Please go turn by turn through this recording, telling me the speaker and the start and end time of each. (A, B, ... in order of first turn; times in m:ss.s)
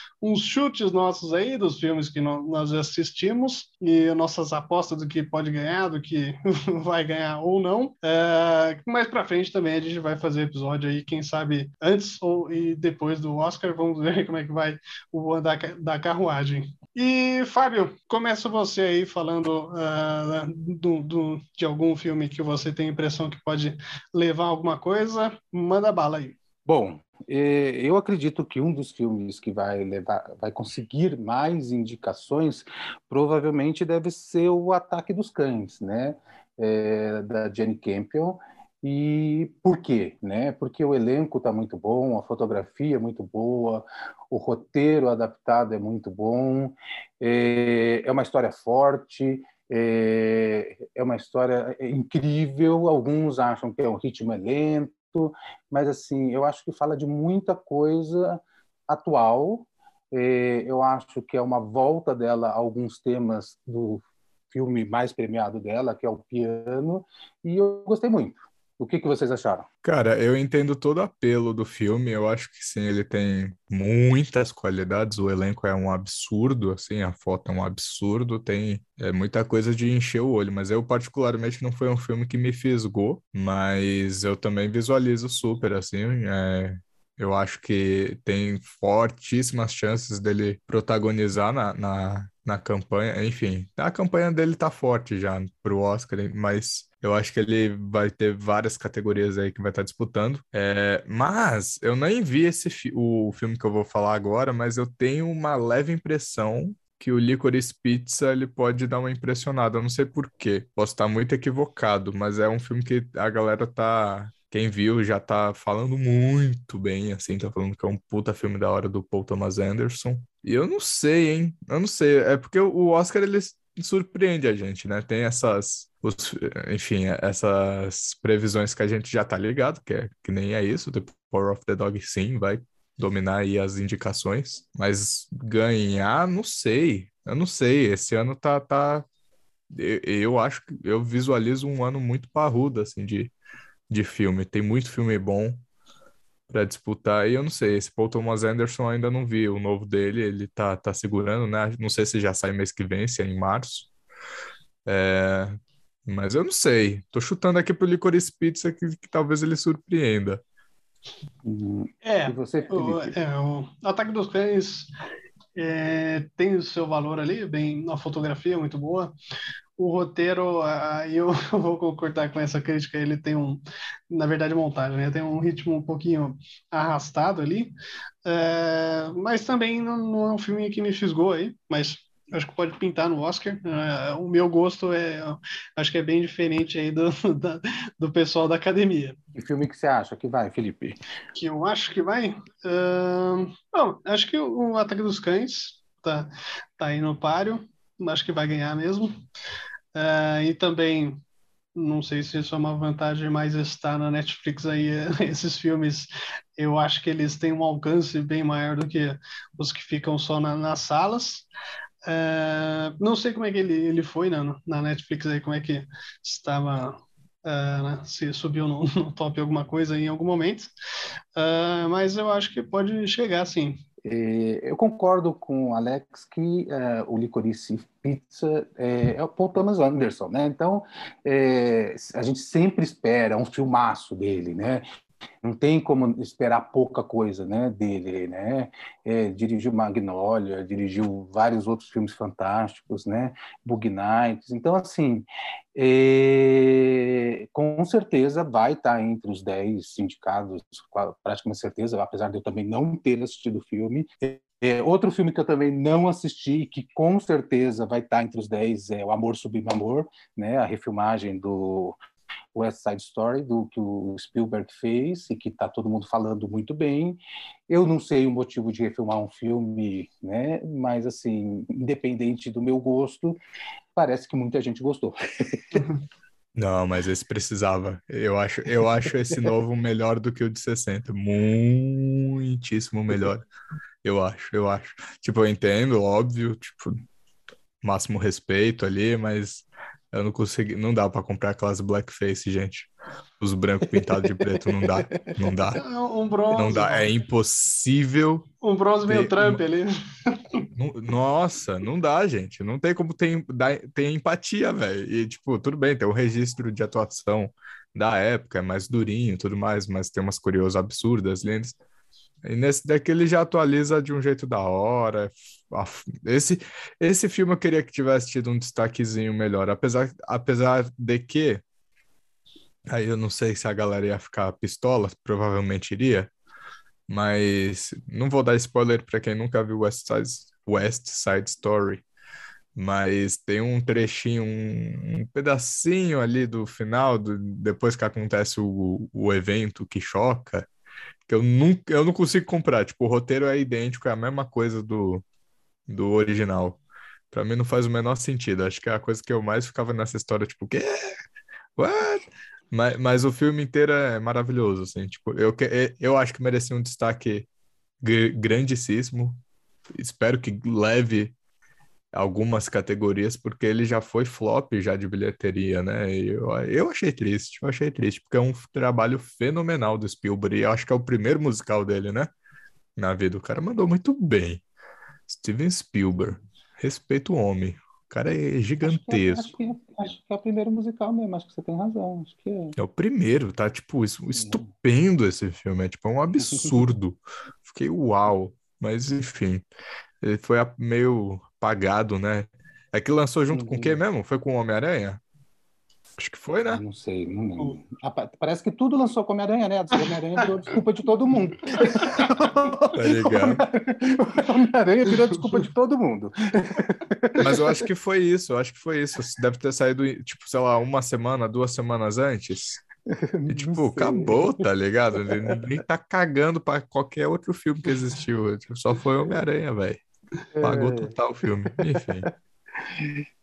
0:00.2-0:26.4 A
0:26.7-1:09.7 B
1:09.8-2:19.0 C
2:19.7-2:23.3 C
2:23.9-2:25.6 C
2:26.5-2:33.9 C
2:34.9-2:40.4 C
2:41.4-2:43.2 B
2:42.0-2:44.9 A
2:45.6-2:49.1 A
2:49.8-2:57.7 A
2:58.2-3:09.2 A
3:09.4-3:11.0 B
3:11.4-3:19.1 A
3:19.9-3:21.2 A
3:21.8-3:31.4 A
3:32.1-3:40.7 A
3:41.4-3:43.8 A
3:44.0-3:54.8 B
3:55.4-4:22.0 B
4:22.5-4:33.4 B
4:34.0-4:35.8 B
4:36.6-4:43.4 C
4:44.0-4:47.0 C
4:47.8-4:55.8 C
4:53.9-4:55.2 B
4:55.8-4:57.1 A
4:56.5-4:58.5 C
4:58.6-5:00.6 A
4:59.1-4:59.6 C
5:00.8-5:11.8 C
5:12.4-5:21.6 C
5:22.9-5:26.3 C
5:27.1-5:32.0 C
5:32.8-5:40.7 C
5:41.3-5:45.2 C
5:45.9-5:51.2 C
5:51.8-5:57.5 C
5:58.0-5:59.4 C
5:59.9-6:01.3 C
6:02.1-6:12.3 C
6:13.0-6:14.6 C
6:15.3-6:19.5 C
6:18.8-6:22.7 B
6:22.8-6:29.6 C
6:30.2-6:35.2 C
6:33.5-6:34.0 B
6:36.2-6:36.8 C
6:36.7-6:47.8 B
6:42.9-6:43.6 C
6:47.4-6:52.8 C
6:53.1-6:54.7 B
6:53.5-7:00.0 C
6:55.2-6:55.6 B
7:00.6-7:01.1 B
7:00.6-7:02.3 C
7:02.8-7:03.2 B